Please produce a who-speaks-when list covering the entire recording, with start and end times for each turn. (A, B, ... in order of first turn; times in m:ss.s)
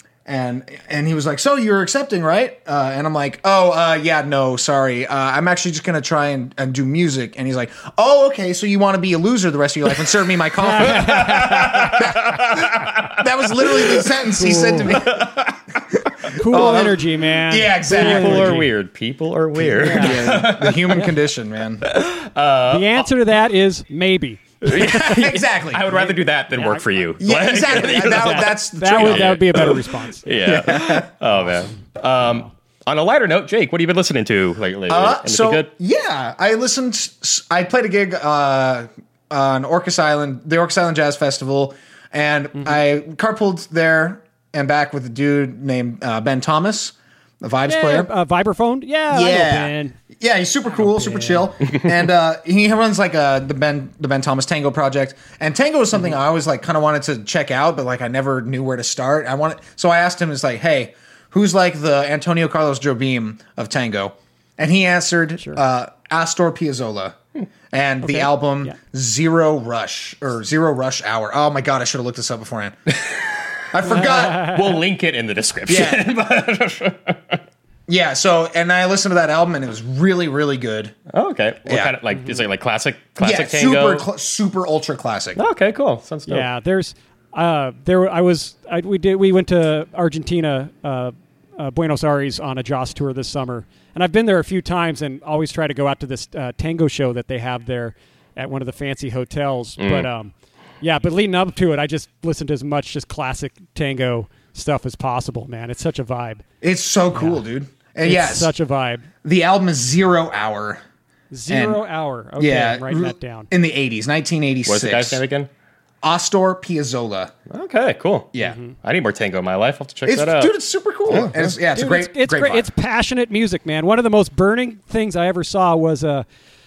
0:00.2-0:18.6 A
0:10.6-0:12.1 B
0:11.2-0:14.1 C
0:14.3-0:15.0 B
0:14.9-0:15.2 C
0:16.4-0:18.7 B
0:17.9-0:21.1 C
0:19.7-0:20.4 B
0:19.8-0:21.8 A
0:21.8-0:23.1 C
0:22.7-0:24.9 B
0:24.6-0:26.1 A
0:24.6-0:35.7 C
0:25.9-0:30.3 B
0:27.2-0:29.6 A
0:30.4-0:31.1 A
0:34.9-0:48.1 A
0:47.6-0:50.0 B
0:49.1-1:07.2 A
0:50.8-0:51.4 B
1:07.7-1:12.9 A
1:08.0-1:08.8 B
1:13.7-1:14.6 A
1:13.8-1:17.4 C
1:13.8-1:14.6 B
1:15.7-1:16.1 A
1:17.9-1:20.9 A
1:21.1-1:24.0 C
1:21.7-1:21.9 A
1:23.2-1:25.4 A
1:25.4-1:26.5 C
1:26.3-1:46.4 B
1:39.8-1:40.1 C
1:46.6-1:48.5 A
1:47.1-1:47.4 B
1:48.0-1:49.1 B
1:49.2-1:50.8 A
1:51.3-1:53.5 B
1:51.5-1:51.8 A
1:52.4-1:55.2 A
1:54.6-1:55.5 C
1:56.0-1:57.3 A
1:57.5-2:00.5 C
1:58.4-1:58.7 B
2:00.0-2:02.7 A
2:01.1-2:01.5 C
2:01.7-2:06.2 B